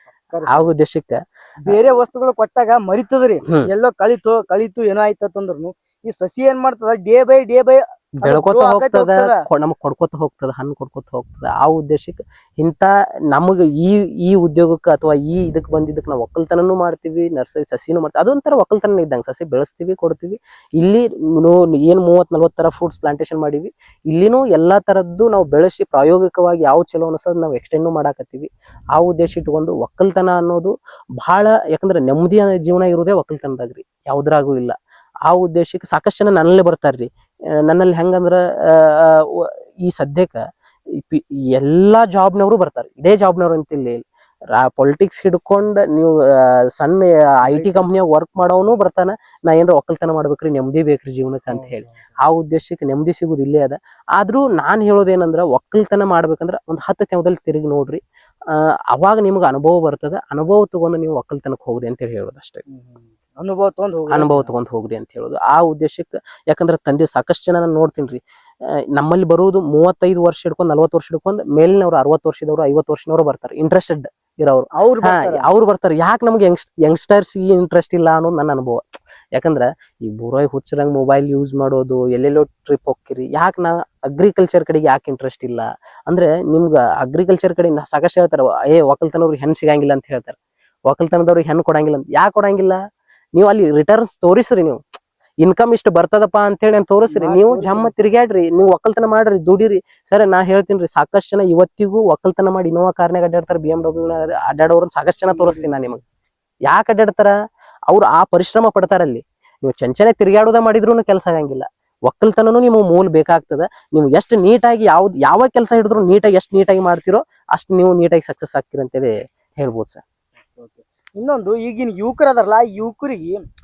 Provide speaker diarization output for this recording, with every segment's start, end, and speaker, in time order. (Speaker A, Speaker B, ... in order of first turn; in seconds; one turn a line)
Speaker A: 0.3-0.7
Speaker B: 0.5-1.8
Speaker A: 1.6-9.4
Speaker B: 8.2-34.8
Speaker B: 35.3-40.4
Speaker B: 40.9-62.6
Speaker A: 47.4-47.9
Speaker A: 51.5-52.0
Speaker A: 62.7-64.5
Speaker B: 64.1-92.8
Speaker A: 74.7-75.5
Speaker B: 93.3-94.8
Speaker B: 95.4-106.0
Speaker A: 97.1-97.9
Speaker A: 105.3-105.7
Speaker B: 106.7-107.3
Speaker B: 107.9-120.0
Speaker A: 120.5-123.4